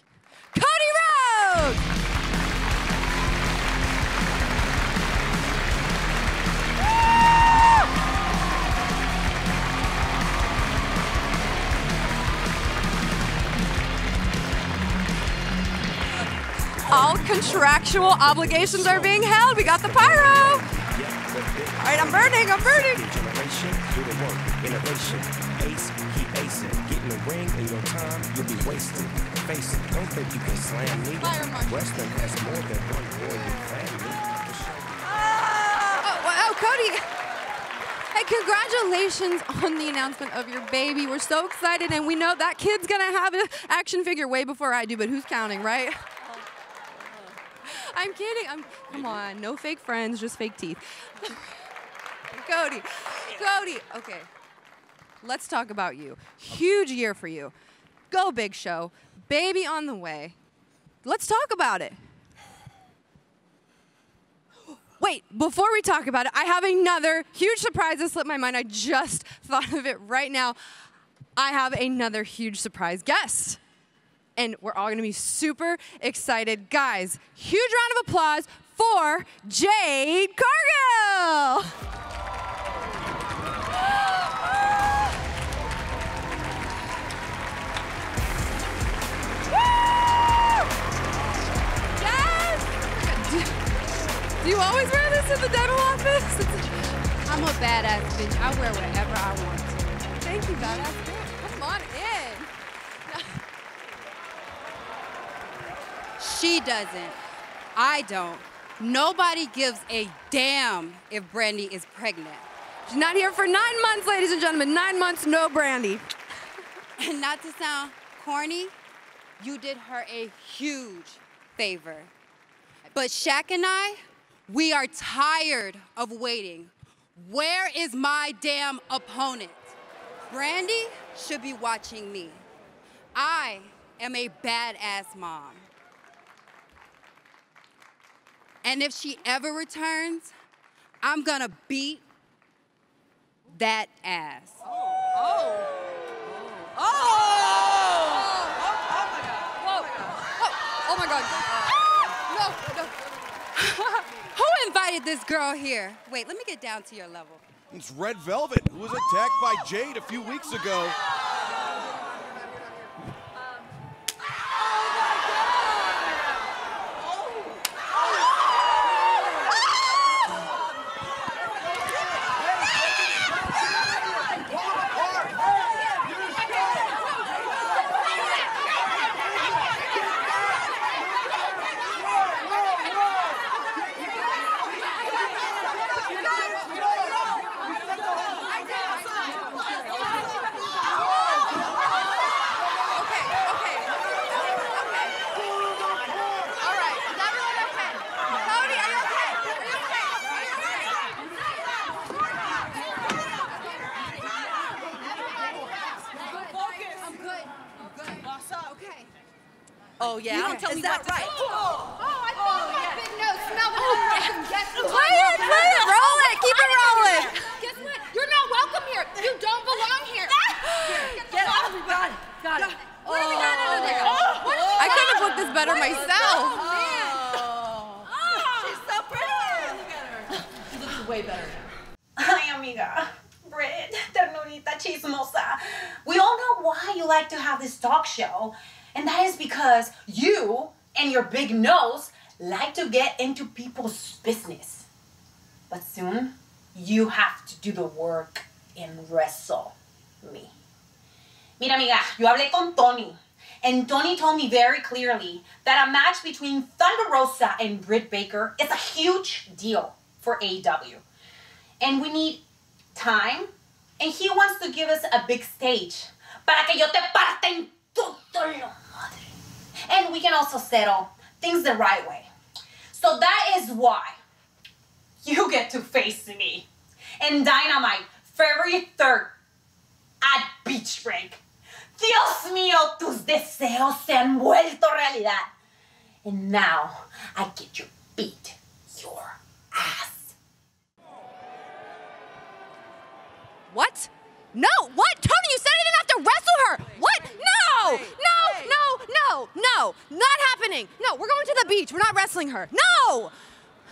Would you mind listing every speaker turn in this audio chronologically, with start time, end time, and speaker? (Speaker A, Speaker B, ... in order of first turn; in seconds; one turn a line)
Speaker A: 0.5-1.8
Speaker A: 16.9-20.7
Speaker B: 18.8-35.0
Speaker A: 21.8-23.1
Speaker A: 31.2-32.4
Speaker C: 35.2-35.9
Speaker A: 36.0-37.1
Speaker A: 38.1-46.1
Speaker A: 47.6-51.4
Speaker A: 52.3-54.3
Speaker A: 55.2-57.5
Speaker A: 58.1-60.4
Speaker A: 61.0-62.0
Speaker A: 65.0-70.6
Speaker A: 71.3-73.6
Speaker A: 74.3-81.7
Speaker A: 91.9-93.7
Speaker A: 94.4-96.7
Speaker D: 97.2-100.1
Speaker A: 100.1-102.5
Speaker A: 103.0-103.4
Speaker D: 106.2-107.2
Speaker D: 107.8-112.5
Speaker A: 112.8-116.0
Speaker D: 117.0-118.7
Speaker D: 119.4-122.1
Speaker D: 122.9-129.7
Speaker D: 130.3-132.4
Speaker D: 133.1-135.7
Speaker D: 138.6-140.3
Speaker D: 141.0-142.0
Speaker D: 143.5-144.6
Speaker A: 145.3-145.6
Speaker A: 146.8-148.7
Speaker C: 148.9-149.4
Speaker A: 149.6-152.9
Speaker A: 153.5-154.2
Speaker D: 154.3-157.4
Speaker E: 157.7-161.0
Speaker E: 172.7-175.4
Speaker A: 186.4-187.0
Speaker A: 188.2-190.3
Speaker A: 191.2-191.7
Speaker A: 192.9-195.2
Speaker A: 196.6-201.0
Speaker A: 204.8-209.1
Speaker C: 210.0-211.9
Speaker A: 210.3-210.7
Speaker D: 210.4-211.3
Speaker A: 211.2-222.1
Speaker C: 212.5-213.0
Speaker C: 214.0-215.7
Speaker F: 218.0-220.1
Speaker C: 220.5-231.7
Speaker F: 221.3-221.5
Speaker A: 222.9-227.3
Speaker D: 223.6-224.1
Speaker D: 226.6-226.9
Speaker A: 228.2-228.8
Speaker F: 232.2-244.9
Speaker F: 245.7-250.5
Speaker F: 251.6-261.0
Speaker F: 261.8-262.4
Speaker F: 262.9-269.3
Speaker F: 269.9-272.3
Speaker F: 272.9-274.2
Speaker F: 275.2-276.7
Speaker F: 277.2-279.3
Speaker F: 280.2-281.4
Speaker F: 281.9-285.5
Speaker F: 286.2-290.4
Speaker A: 293.7-303.3